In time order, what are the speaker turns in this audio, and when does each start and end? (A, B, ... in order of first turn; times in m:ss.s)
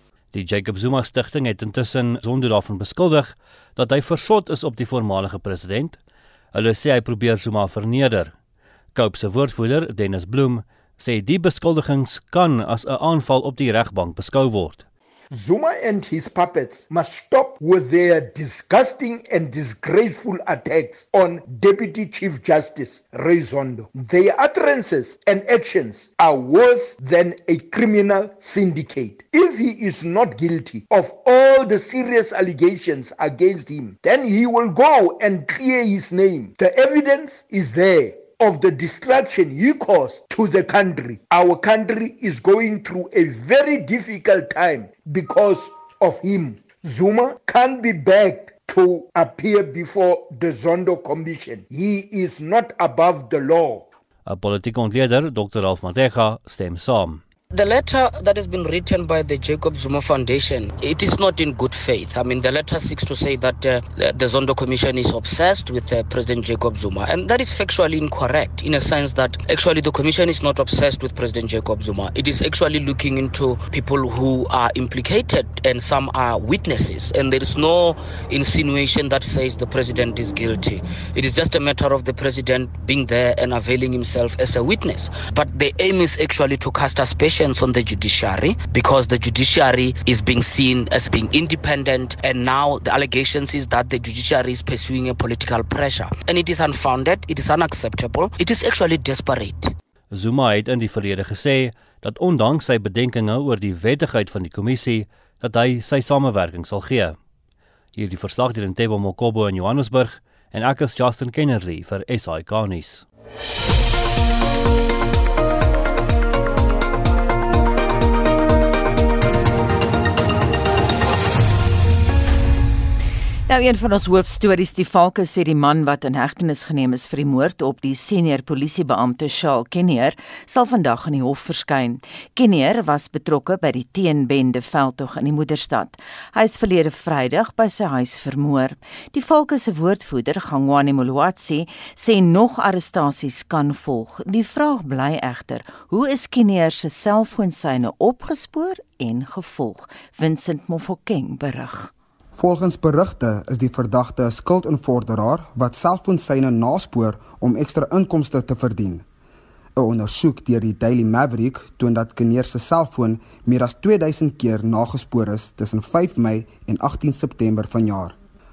0:00.3-0:06.0 A
0:06.5-0:08.3 A
0:08.9-0:14.8 A
0:15.3-0:53.8 B
0:54.3-0:57.2 A
0:57.5-1:39.8 C
1:40.1-1:47.2 A
1:48.0-1:53.1 A
2:03.5-2:31.9 D
2:32.4-2:39.0 E
2:39.8-2:48.2 E